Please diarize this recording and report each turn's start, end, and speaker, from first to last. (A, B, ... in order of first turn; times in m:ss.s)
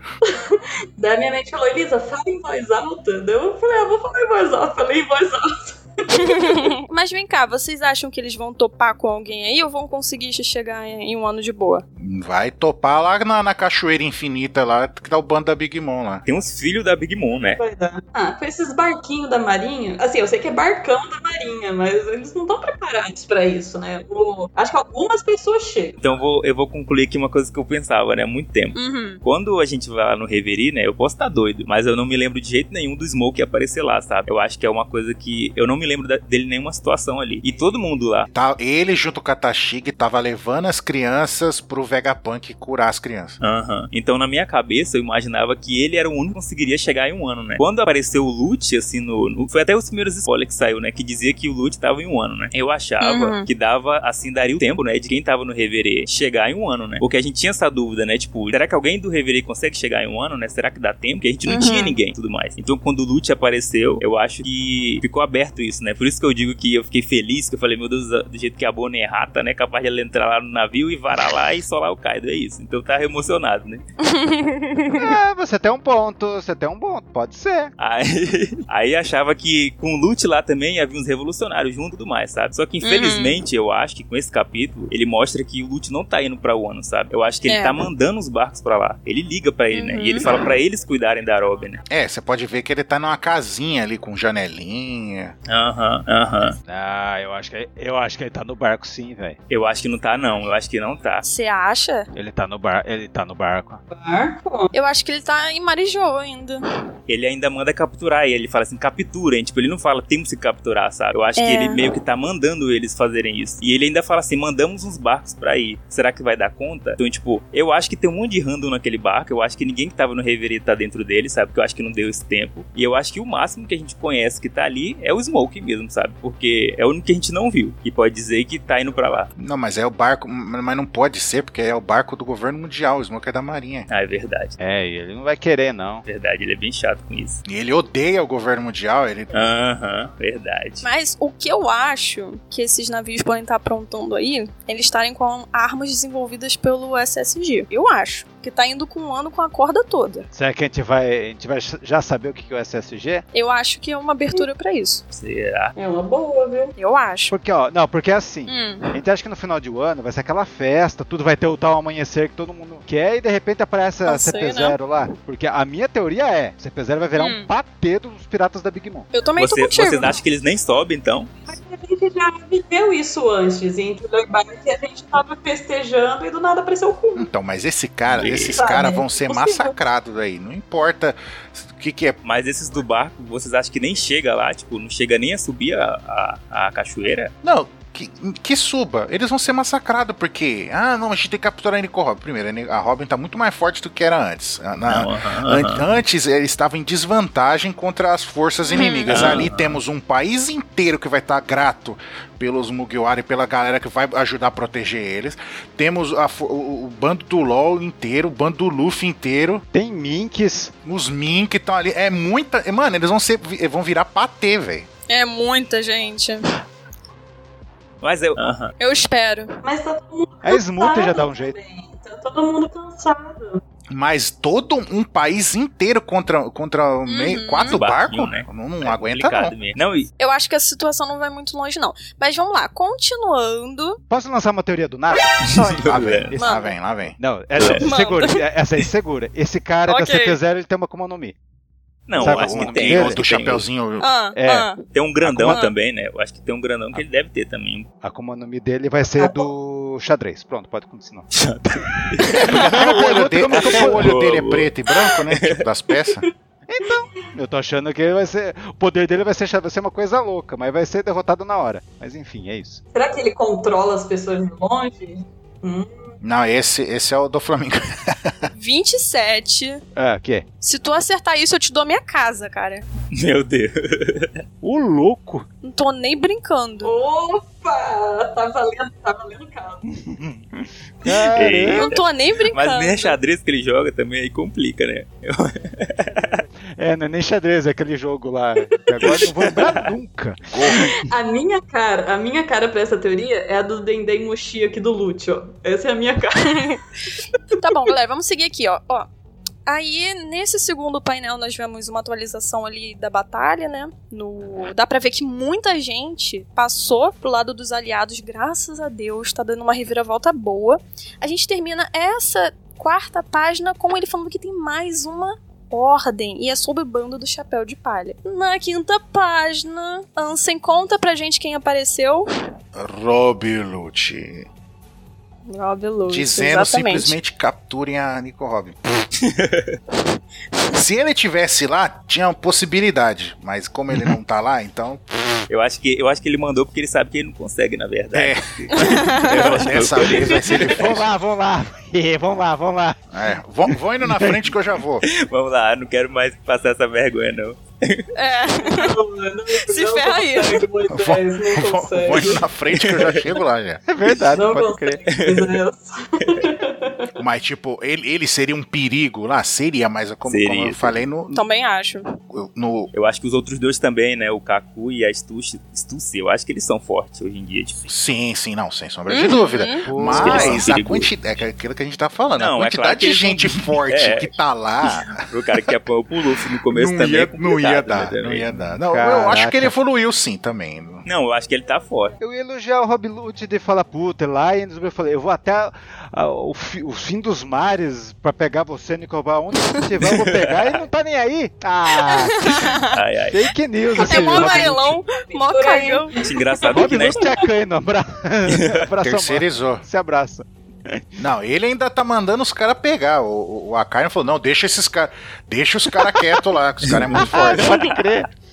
0:00.2-0:06.7 A
0:06.1-0:11.8 B
0:12.0-0:16.2 C
0:16.3-0:17.6 D
0:17.6-0:26.0 A
0:26.0-0:38.3 D
0:28.8-0:29.2 B
0:38.3-0:43.4 C
0:43.4-1:13.8 D
0:53.0-0:53.5 B
1:01.5-1:02.0 B
1:14.0-1:15.2 B
1:15.0-1:17.7 E
1:17.8-1:31.8 D
1:22.8-1:23.4 B
1:27.5-1:27.8 B
1:29.7-1:30.4 B
1:31.9-1:35.4 C
1:35.5-1:36.6 D
1:36.7-1:39.4 E
1:39.5-1:41.2 D
1:41.2-1:42.1 B
1:42.1-1:43.8 E
1:43.9-1:44.7 A
1:44.7-1:46.6 B
1:47.1-2:09.3 D
1:51.4-1:51.9 B
2:09.4-2:13.9 C
2:13.9-2:14.6 D
2:14.6-2:16.0 E
2:16.1-2:17.4 D
2:17.5-2:19.4 C
2:19.3-2:20.9 D
2:20.8-2:30.3 B
2:30.3-2:33.2 E
2:33.3-2:35.0 B
2:35.1-2:35.7 D
2:35.8-2:36.8 A
2:36.8-2:37.4 B
2:37.3-2:49.1 E
2:38.5-2:39.0 B
2:44.1-2:44.8 B
2:47.2-2:47.5 B
2:49.1-2:50.2 B
2:49.4-2:51.5 D
2:51.5-2:57.3 A
2:57.2-3:02.2 C
2:58.1-2:58.6 D
2:58.5-2:59.8 A
3:02.2-3:07.3 D
3:07.4-3:29.6 C
3:14.9-3:15.9 D
3:18.7-3:19.5 B
3:19.1-3:19.8 D
3:29.7-3:30.7 E
3:30.8-3:34.9 C
3:35.1-3:36.6 B
3:38.0-3:38.8 D
3:38.8-3:39.6 B
3:39.6-3:43.6 A
3:40.4-3:41.6 E
3:43.9-3:49.6 C
3:47.1-3:47.8 B
3:47.7-3:50.1 D
3:50.2-3:54.0 B
3:54.1-3:56.6 E
3:55.4-3:56.3 D
3:55.8-3:57.2 C
3:56.4-3:56.7 B
3:57.2-4:01.4 E
3:57.6-3:57.8 D
3:57.8-3:58.4 B
3:59.9-4:00.4 B
4:02.1-4:03.6 D
4:02.2-4:03.2 E
4:02.2-4:04.1 C
4:04.0-4:04.8 B
4:04.4-4:04.7 E
4:04.9-4:07.9 D
4:05.2-4:05.6 E
4:05.4-4:05.7 B
4:08.0-4:14.1 E
4:09.2-4:09.4 A
4:11.3-4:15.6 D
4:12.3-4:16.3 C
4:16.7-4:22.8 E
4:22.9-4:26.0 A
4:26.2-4:28.5 C
4:28.5-4:29.8 B
4:30.0-4:30.5 E
4:30.6-4:32.9 B
4:33.1-4:34.4 D
4:34.6-4:35.5 E
4:35.6-4:37.0 B
4:36.8-4:39.8 A
4:39.9-4:41.9 E
4:41.1-4:46.4 D
4:41.7-4:43.2 B
4:46.6-4:51.0 E
4:49.0-4:49.9 D
4:50.5-4:50.9 C
4:50.7-4:56.8 A
4:56.4-4:56.8 B
4:57.6-4:59.1 B
4:57.6-4:57.9 A
4:59.7-5:22.3 B
5:22.7-5:24.5 C
5:25.5-5:27.2 B
5:26.1-5:29.0 C
5:29.2-5:29.8 D
5:30.7-5:35.5 C
5:35.5-5:41.0 D
5:38.1-5:41.1 C
5:38.7-5:39.6 B
5:40.4-5:43.0 E
5:43.1-5:45.0 C
5:43.7-5:44.6 E
5:45.0-5:48.1 D
5:48.2-5:49.0 B
5:48.6-5:52.4 A
5:49.5-5:50.6 B
5:50.9-5:53.8 C
5:52.7-5:53.2 D
5:53.9-5:55.0 E
5:54.3-5:57.2 A
5:55.1-5:55.6 D
5:57.2-6:01.4 C
6:00.2-6:01.0 D
6:01.3-6:02.2 B
6:02.3-6:02.9 C
6:02.9-6:07.9 D
6:07.9-6:15.6 C
6:09.1-6:09.9 B
6:09.8-6:10.7 E
6:10.0-6:11.1 D
6:12.4-6:14.3 D
6:15.1-6:18.5 D
6:16.7-6:21.1 C
6:18.7-6:19.7 E
6:21.1-6:22.2 D
6:22.2-6:32.5 E
6:30.2-6:30.8 D
6:32.0-6:32.9 B
6:32.8-6:33.5 D
6:33.3-6:35.0 E
6:34.0-6:37.1 A
6:34.0-6:36.2 B
6:36.2-6:37.4 D
6:36.7-6:41.2 E
6:38.5-6:38.8 D
6:39.0-6:39.8 C
6:41.2-6:48.0 C
6:46.0-6:46.4 E
6:46.9-6:48.0 D
6:47.1-6:48.3 E